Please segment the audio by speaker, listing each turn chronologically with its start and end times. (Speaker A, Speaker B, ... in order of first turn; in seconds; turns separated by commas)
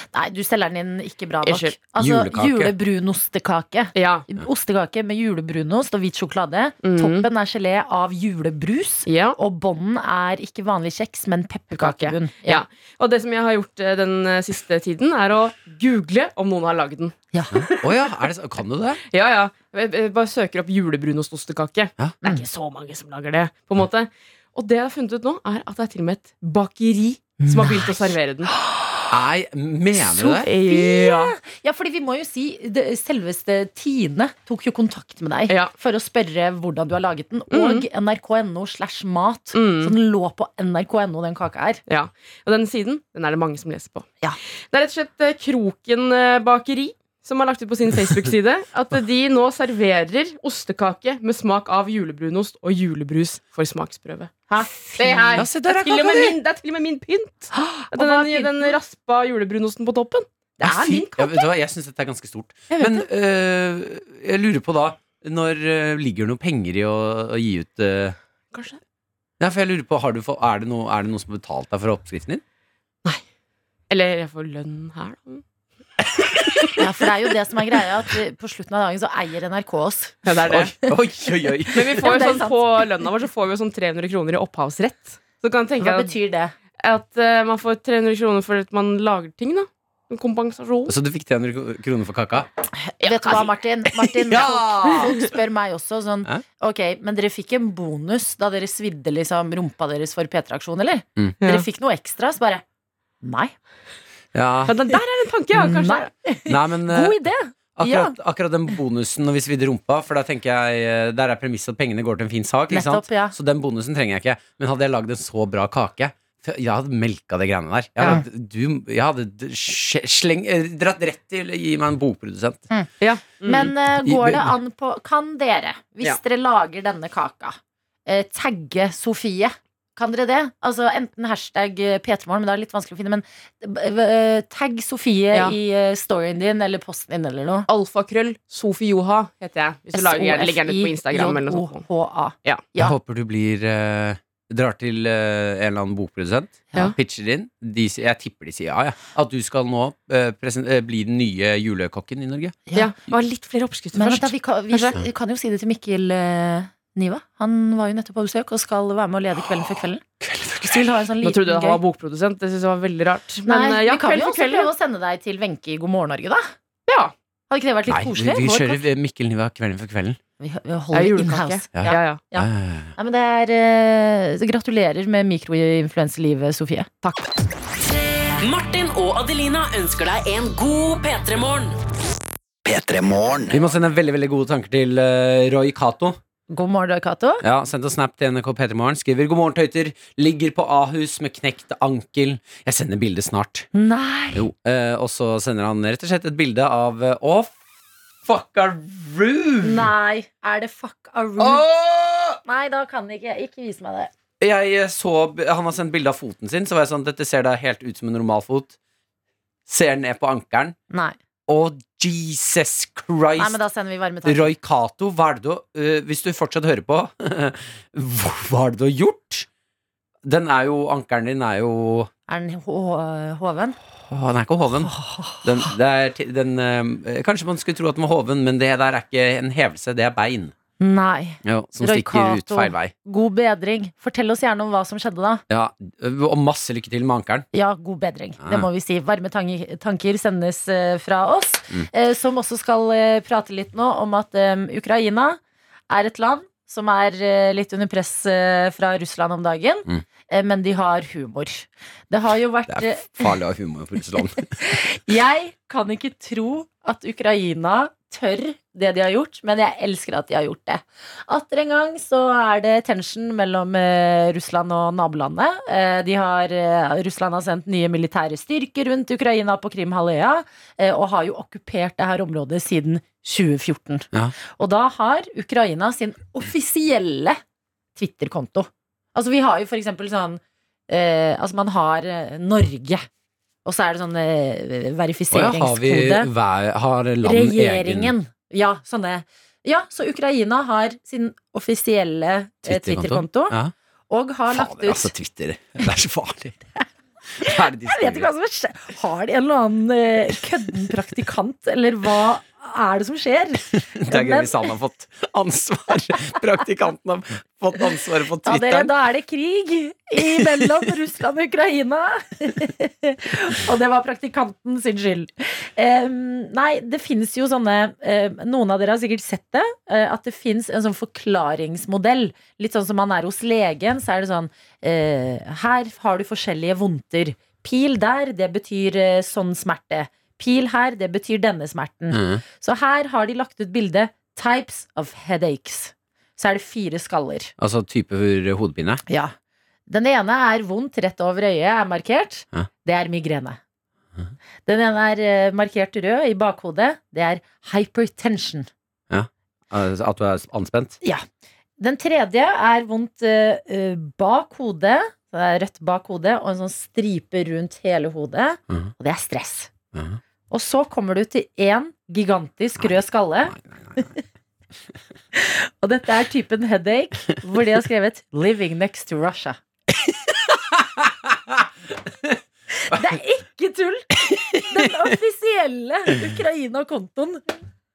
Speaker A: 0.1-12.6, Speaker B: 1.4-1.8, Speaker C: 2.0-2.7, Speaker B: 3.9-4.2, Speaker B: 6.8-7.3, Speaker B: 9.1-9.4, Speaker B: 11.7-17.1, Speaker A: 17.3-17.7, Speaker C: 17.5-19.0, Speaker B: 19.1-28.5, Speaker A: 27.4-27.9, Speaker C: 29.1-30.5, Speaker A: 30.2-41.8, Speaker B: 30.4-31.3, Speaker B: 37.5-37.9, Speaker B: 39.5-39.9, Speaker B: 41.9-44.1, Speaker B: 44.7-61.5, Speaker A: 54.5-55.5, Speaker C: 55.4-56.4, Speaker A: 57.5-58.8, Speaker C: 60.6-68.2, Speaker B: 62.7-63.0, Speaker B: 68.5-68.8, Speaker C: 69.4-72.4, Speaker B: 73.9-75.4, Speaker A: 76.8-80.2, Speaker B: 80.2-80.7, Speaker C: 80.5-82.1, Speaker B: 81.7-86.1, Speaker A: 82.0-82.6, Speaker A: 85.8-86.5, Speaker B: 86.8-90.9, Speaker C: 90.9-92.5, Speaker A: 92.8-102.6, Speaker B: 93.0-93.5, Speaker C: 94.0-95.2, Speaker A: 103.2-103.5, Speaker C: 104.3-104.8, Speaker B: 104.7-106.1, Speaker A: 105.5-108.1, Speaker C: 106.5-107.2, Speaker C: 107.8-122.6, Speaker A: 112.7-113.3, Speaker B: 123.0-123.7, Speaker A: 123.4-137.7, Speaker C: 124.0-124.5, Speaker B: 137.7-141.8, Speaker A: 139.9-142.9, Speaker C: 142.8-152.6, Speaker B: 152.7-155.0, Speaker A: 153.9-160.0, Speaker C: 159.6-160.9, Speaker A: 160.7-161.8, Speaker B: 161.2-164.7, Speaker A: 163.4-166.5, Speaker B: 166.9-167.1, Speaker A: 167.5-168.8, Speaker C: 167.9-170.2, Speaker A: 170.4-176.9, Speaker B: 170.9-172.2, Speaker C: 171.7-172.9, Speaker B: 177.0-177.3, Speaker D: 178.4-181.8, Speaker D: 182.6-183.6, Speaker C: 183.5-186.2, Speaker A: 186.5-187.4, Speaker C: 187.4-193.7, Speaker A: 193.7-194.4, Speaker C: 194.3-197.6, Speaker C: 198.2-199.9, Speaker A: 199.6-201.7, Speaker C: 201.4-202.4, Speaker A: 202.4-204.1, Speaker C: 204.4-208.7, Speaker C: 209.7-210.8, Speaker A: 210.9-211.2, Speaker C: 211.5-213.6, Speaker A: 213.4-214.5, Speaker C: 214.2-219.5, Speaker C: 220.2-222.1, Speaker A: 222.3-223.8, Speaker C: 224.1-230.5, Speaker A: 224.8-225.4, Speaker A: 230.8-235.4, Speaker C: 231.4-232.9, Speaker C: 235.5-237.4, Speaker A: 237.5-253.3, Speaker C: 238.4-238.7, Speaker C: 252.7-254.5, Speaker A: 254.6-277.4, Speaker A: 277.9-283.1, Speaker A: 283.6-286.3, Speaker C: 285.3-288.1, Speaker A: 287.2-293.6, Speaker C: 292.6-293.7, Speaker A: 294.1-295.1, Speaker C: 294.5-296.6, Speaker C: 297.4-298.3, Speaker A: 297.4-304.7, Speaker C: 303.9-308.9, Speaker A: 308.4-337.5, Speaker C: 310.2-310.9, Speaker C: 332.1-332.4, Speaker C: 337.6-339.0, Speaker A: 339.1-339.3, Speaker A: 339.9-343.6, Speaker A: 344.6-348.7, Speaker C: 349.1-351.0, Speaker A: 351.8-359.7, Speaker C: 359.9-360.2, Speaker A: 360.5-364.2, Speaker C: 362.8-364.1, Speaker A: 365.4-369.6, Speaker C: 369.9-372.4, Speaker A: 372.8-374.1, Speaker C: 374.2-375.1, Speaker A: 374.7-377.4